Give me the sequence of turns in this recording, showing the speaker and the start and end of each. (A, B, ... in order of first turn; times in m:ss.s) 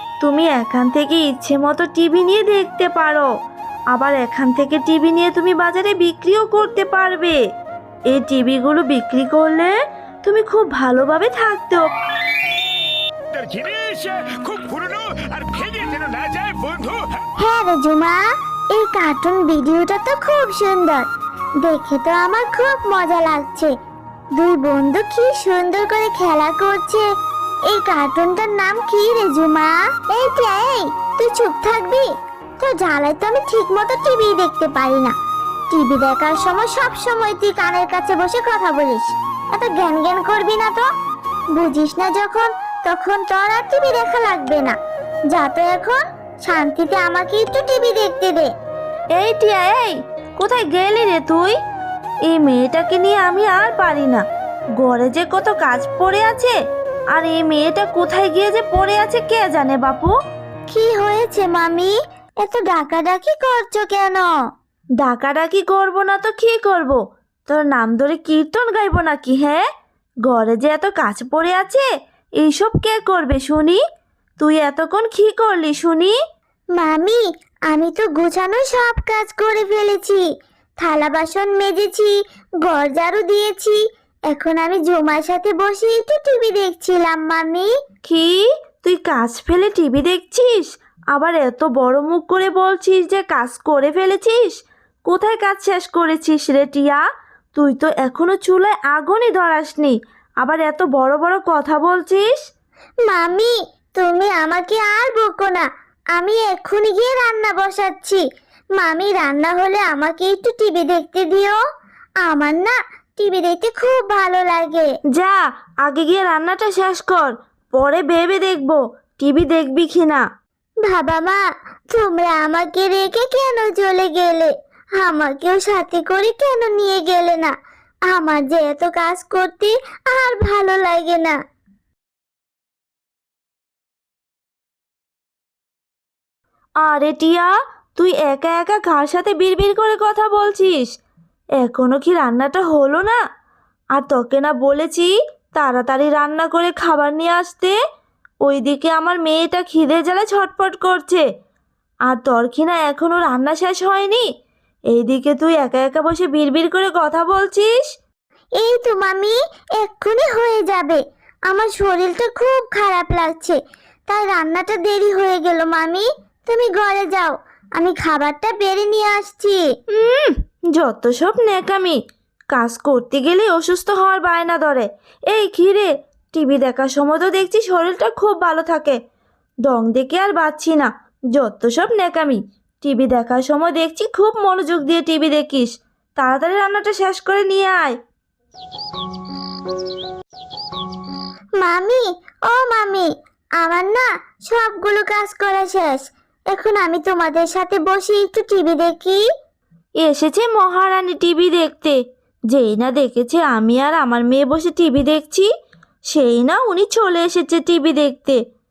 0:00.2-0:03.3 A
0:03.9-0:07.4 A
0:08.1-0:09.7 A
0:10.2-0:11.9 A
0:13.3-0:17.1 B
0:17.4-0:18.2 C
0:18.8-0:21.1 C
0:21.6-0:23.7 C
0:24.4-0:27.0 C
0:27.7-0:32.1 C
0:32.6-0:35.1 C
0:35.7-0:40.8 C
0:41.6-0:44.8 C
0:45.3-0:48.5 C
0:49.2-0:51.6 A
0:52.3-0:54.2 A
0:54.8-0:56.5 A
0:57.2-1:00.1 A
1:00.7-1:04.3 C
1:05.0-1:09.6 A
1:10.3-1:11.8 A
1:12.4-1:13.8 A
1:14.4-1:16.2 A
1:16.8-1:20.2 C
1:20.8-1:23.8 C
1:24.3-1:27.7 C
1:28.0-1:37.0 A
1:37.6-1:42.4 A
1:43.1-1:45.6 C
1:46.2-1:48.2 C
1:48.8-1:51.6 C
1:52.2-1:54.9 C
1:55.2-2:00.2 A
2:00.9-2:01.4 C
2:01.9-2:07.5 C
2:08.1-2:11.4 C
2:16.8-2:20.9 A
2:21.6-2:23.2 A
2:24.0-2:27.8 A
2:28.4-2:31.2 A
2:32.1-2:34.3 A
2:34.9-2:37.8 A
2:38.6-2:43.6 C
2:44.1-2:49.6 C
2:49.9-2:52.0 A
2:52.5-2:59.0 A
2:59.7-3:08.0 A
3:11.6-3:13.1 C
3:13.6-3:19.2 C
3:20.0-3:22.0 A
3:22.5-3:25.5 A
3:26.1-3:28.4 A